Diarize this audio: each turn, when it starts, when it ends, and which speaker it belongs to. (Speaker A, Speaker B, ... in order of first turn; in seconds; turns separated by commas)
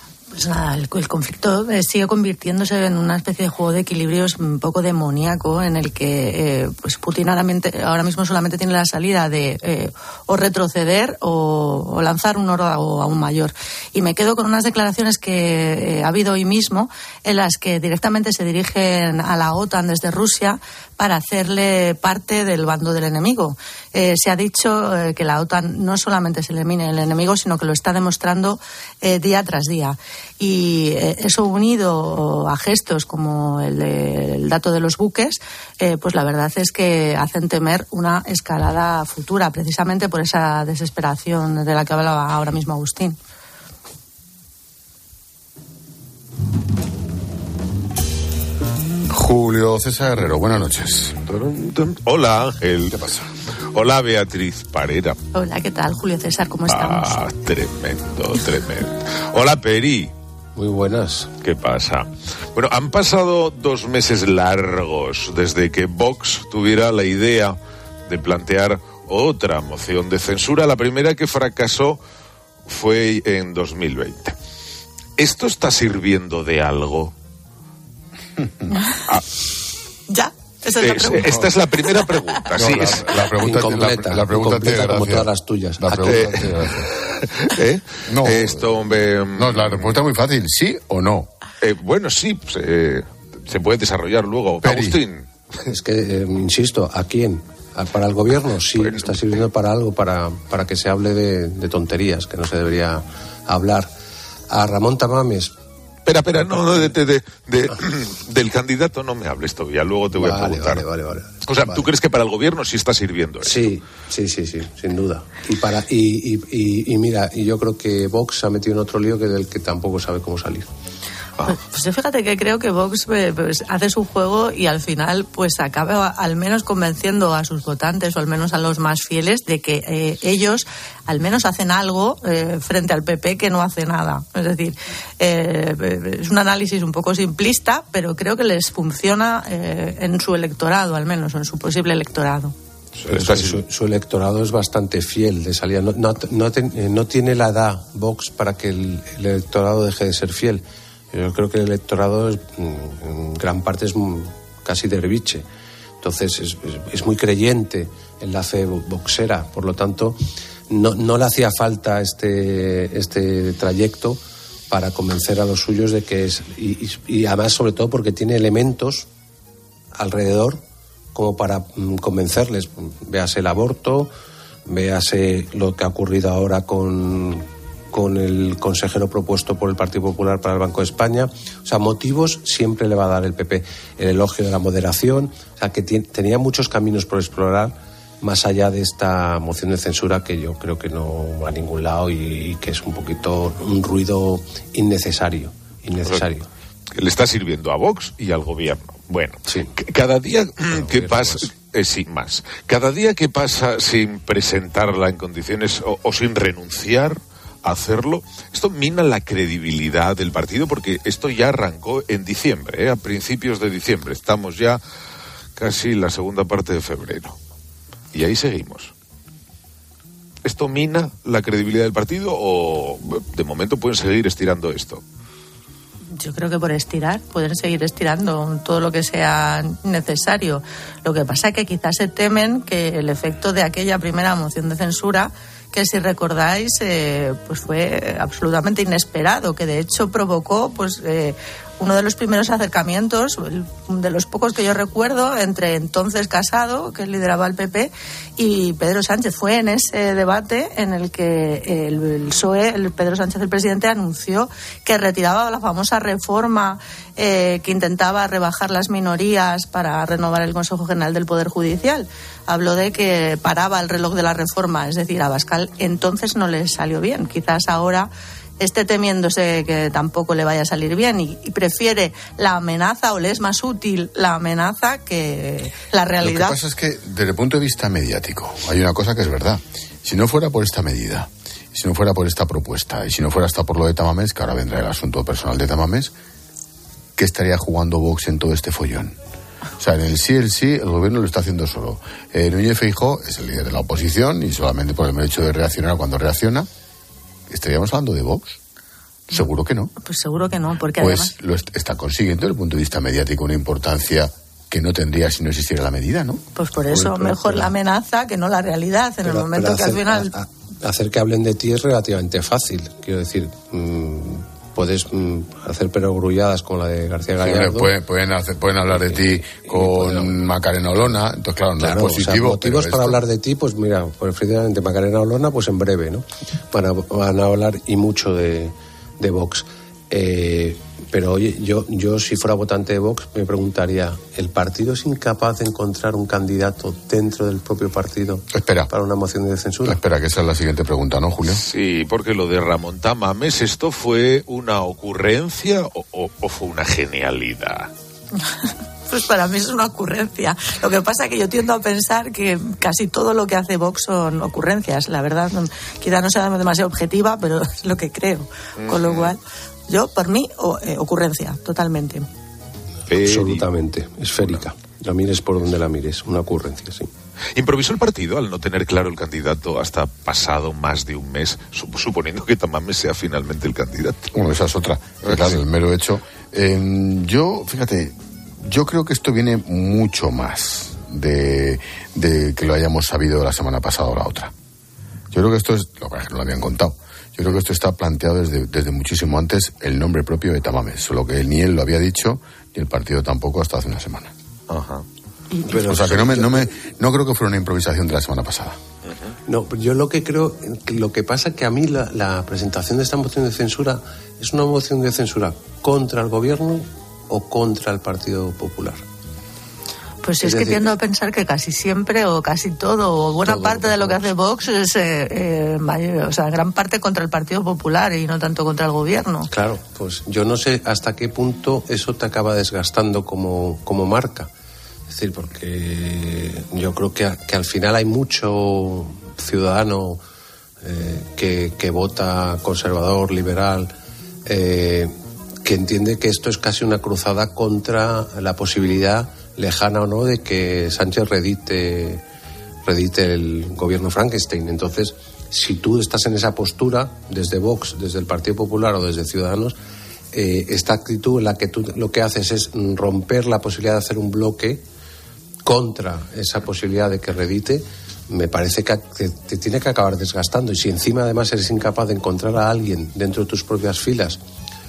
Speaker A: 0.3-43.2, Speaker B: 49.1-51.3, Speaker C: 51.2-53.2, Speaker B: 52.9-53.2, Speaker C: 53.7-55.2, Speaker A: 55.3-57.2, Speaker C: 56.7-60.1, Speaker D: 60.5-61.3, Speaker C: 61.4-72.0, Speaker C: 72.7-74.3, Speaker C: 75.2-77.1, Speaker A: 80.1-82.3, Speaker C: 80.8-83.1, Speaker B: 82.6-86.9, Speaker D: 82.6-86.6, Speaker C: 86.0-90.0, Speaker B: 88.0-91.3, Speaker C: 91.6-95.3, Speaker B: 94.6-95.0, Speaker D: 95.6-103.9, Speaker C: 98.7-99.2, Speaker D: 104.5-105.5, Speaker C: 106.0-110.8, Speaker D: 110.1-111.9, Speaker C: 111.4-113.7, Speaker D: 113.4-120.7, Speaker A: 121.5-142.5, Speaker C: 143.0-143.6, Speaker D: 143.1-155.4, Speaker D: 156.0-169.1, Speaker D: 169.9-170.6, Speaker D: 171.1-174.1, Speaker D: 174.7-196.5, Speaker C: 197.0-214.8, Speaker D: 199.4-199.7, Speaker D: 200.7-201.5, Speaker C: 215.6-217.4, Speaker C: 218.1-218.9, Speaker C: 220.4-225.0, Speaker A: 226.2-276.6, Speaker B: 276.2-286.1, Speaker B: 287.2-289.1, Speaker B: 289.8-296.7, Speaker B: 297.5-298.6, Speaker B: 299.3-299.9, Speaker A: 300.0-301.3, Speaker B: 301.0-306.4, Speaker A: 306.6-310.3, Speaker D: 306.9-307.7, Speaker D: 309.2-317.9, Speaker B: 317.4-323.2, Speaker D: 318.9-320.4, Speaker D: 321.8-340.0, Speaker B: 338.5-338.9, Speaker B: 339.8-341.6, Speaker C: 341.6-347.9, Speaker A: 349.1-362.2, Speaker C: 358.8-359.3, Speaker C: 363.1-363.6, Speaker D: 363.1-367.1, Speaker C: 364.4-364.6, Speaker C: 367.6-374.3, Speaker B: 374.3-384.5, Speaker C: 375.2-375.6, Speaker B: 385.3-394.3, Speaker C: 394.7-395.0, Speaker D: 395.6-396.7, Speaker B: 395.7-398.8, Speaker C: 399.1-399.3, Speaker D: 399.4-409.0, Speaker A: 410.2-419.5, Speaker D: 410.4-410.9, Speaker D: 413.4-414.3, Speaker D: 419.5-424.5, Speaker D: 425.1-430.2, Speaker D: 430.8-433.9, Speaker D: 434.4-442.2, Speaker D: 442.8-449.8, Speaker D: 450.3-454.8, Speaker D: 455.6-464.4